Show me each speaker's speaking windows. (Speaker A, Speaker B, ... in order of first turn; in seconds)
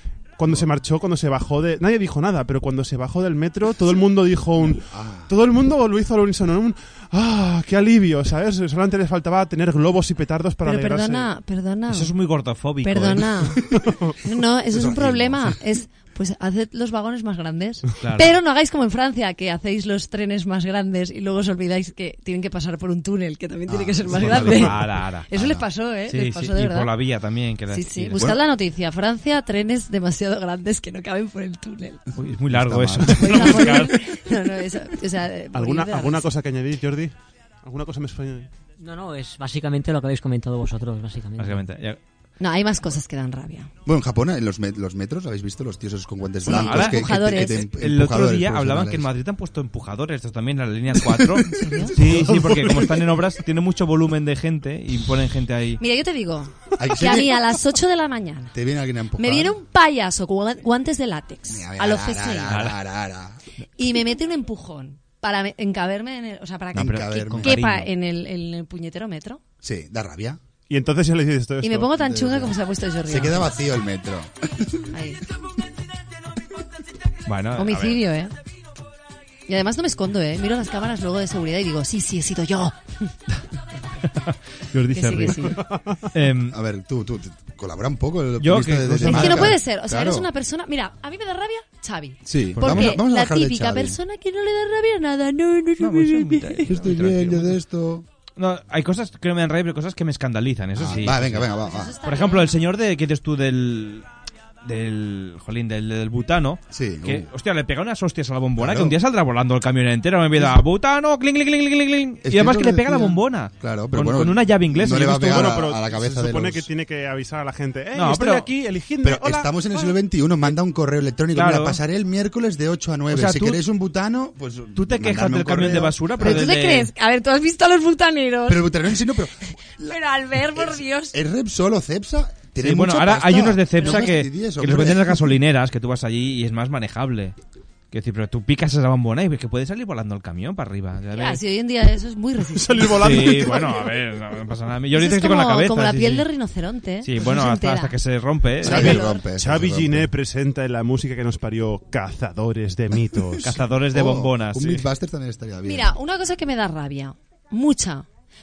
Speaker A: 0.4-11.3, 13.8-14.1, 35.5-38.5, 52.0-53.0, 70.7-71.9, 115.3-119.9, 142.6-143.9, 148.6-153.5
Speaker B: 4.6-5.3, 13.5-13.8, 14.7-15.6, 23.7-24.9, 28.1-28.4, 32.5-33.8, 43.8-49.1, 51.1-51.9, 56.8-57.4, 58.5-59.5, 61.5-63.4, 66.7-67.5, 69.6-70.4, 71.9-74.9, 86.5-90.3, 92.2-94.0, 96.7-98.0, 100.8-101.9, 106.7-107.3, 108.6-108.9, 110.3-110.6, 112.2-116.7, 119.0-126.5, 128.5-135.4, 148.6-150.1, 152.9-155.9
Speaker C: 10.6-12.1, 12.8-13.6, 14.2-26.9, 27.7-32.0, 33.2-36.3, 42.4-43.7, 46.5-47.6, 51.5-51.9, 55.8-58.5, 59.2-62.5, 63.8-69.4, 71.6-73.5, 74.9-75.2, 77.6-78.3, 79.5-82.8, 84.9-85.6, 89.0-96.7, 101.6-102.5, 126.2-128.7, 129.9-131.1, 133.8-134.1, 141.1-143.1, 144.9-147.9, 148.6-149.3, 155.6-158.1
Speaker D: 11.9-13.4, 18.0-18.4, 24.1-28.3, 32.2-33.9, 41.4-42.0, 46.4-55.8, 62.5-62.8, 66.8-67.9, 77.2-78.0, 84.1-85.6, 86.1-86.5, 88.4-89.5, 92.5-93.0, 95.8-97.6, 98.4-101.5, 102.0-104.0, 104.6-115.6, 117.9-118.6, 121.3-121.8, 123.1-123.6, 124.7-126.9, 132.6-137.3, 137.9-141.4, 143.0-146.2, 147.0-149.0, 153.4-154.9
Speaker E: 38.8-41.6